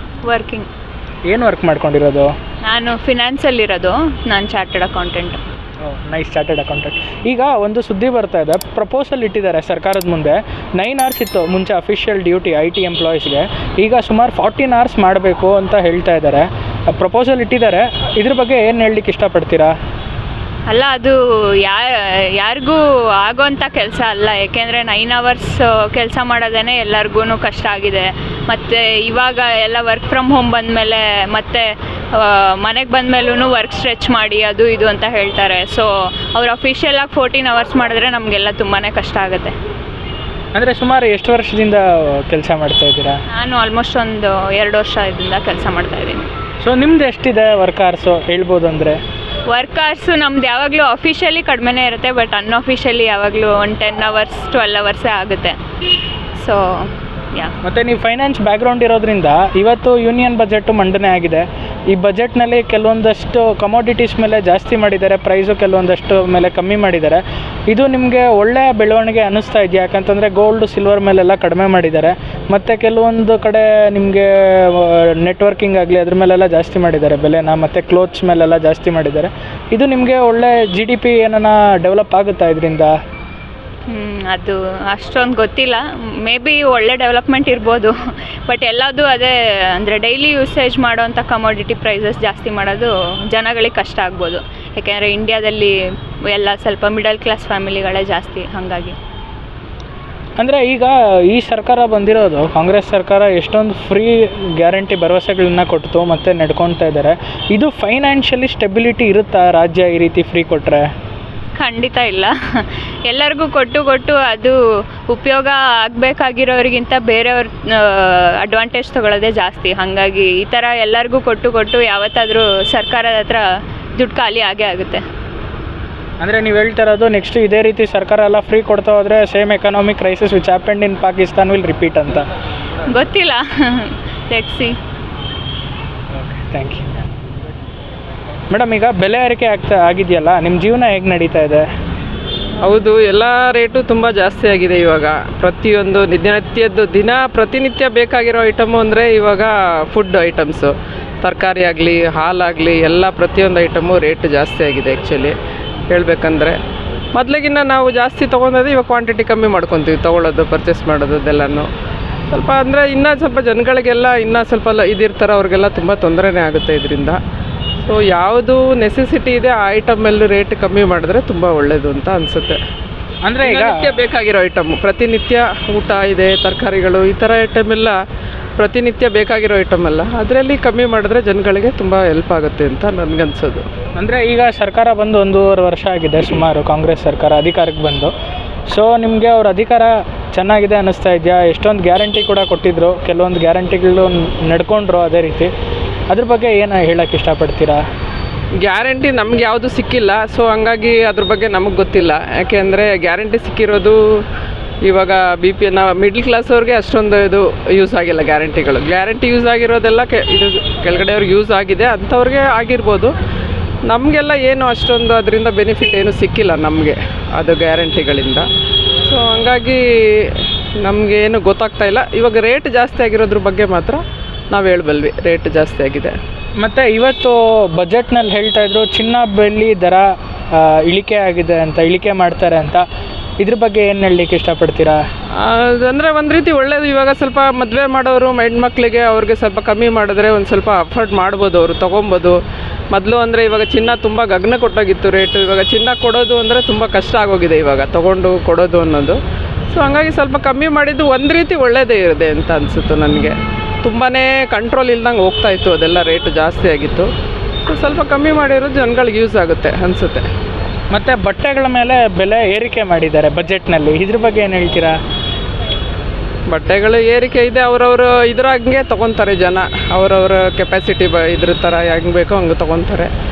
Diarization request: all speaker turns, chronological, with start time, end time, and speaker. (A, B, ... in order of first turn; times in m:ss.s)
0:00.2-0:00.7 A
0:01.3-0:02.3 B
0:02.7-0:05.4 A
0:05.8-0:19.7 B
0:20.7-0:39.6 A
0:40.6-0:43.2 B
0:43.3-0:46.3 A
0:46.6-0:49.0 B
0:49.5-0:55.6 A
0:56.4-0:57.5 A
0:57.6-1:22.9 B
1:23.9-1:28.0 A
1:28.5-1:35.8 A
1:36.3-1:39.0 A
1:40.4-1:50.8 B
1:51.6-1:54.6 A
1:55.1-2:03.4 A
2:04.0-2:05.0 A
2:06.2-2:12.2 B
2:12.9-2:14.8 A
2:16.2-2:16.8 B
2:18.5-2:21.7 B
2:22.6-2:35.4 C
2:35.9-2:36.6 C
2:37.1-2:41.7 C
2:42.3-2:47.2 C
2:47.8-2:52.6 C
2:53.2-2:53.9 B
2:53.4-2:58.0 C
2:58.6-3:03.6 C
3:04.0-3:08.1 B
3:08.7-3:15.5 B
3:16.1-3:17.8 B
3:18.6-3:24.2 C
3:24.8-3:33.1 C
3:33.9-3:38.5 C
3:39.0-3:46.2 C
3:46.6-3:52.8 B
3:53.4-3:55.0 B
3:55.4-4:02.4 C
4:02.9-4:09.2 C
4:09.7-4:17.1 C
4:17.7-4:20.3 C
4:20.9-4:24.9 B
4:26.5-4:33.1 C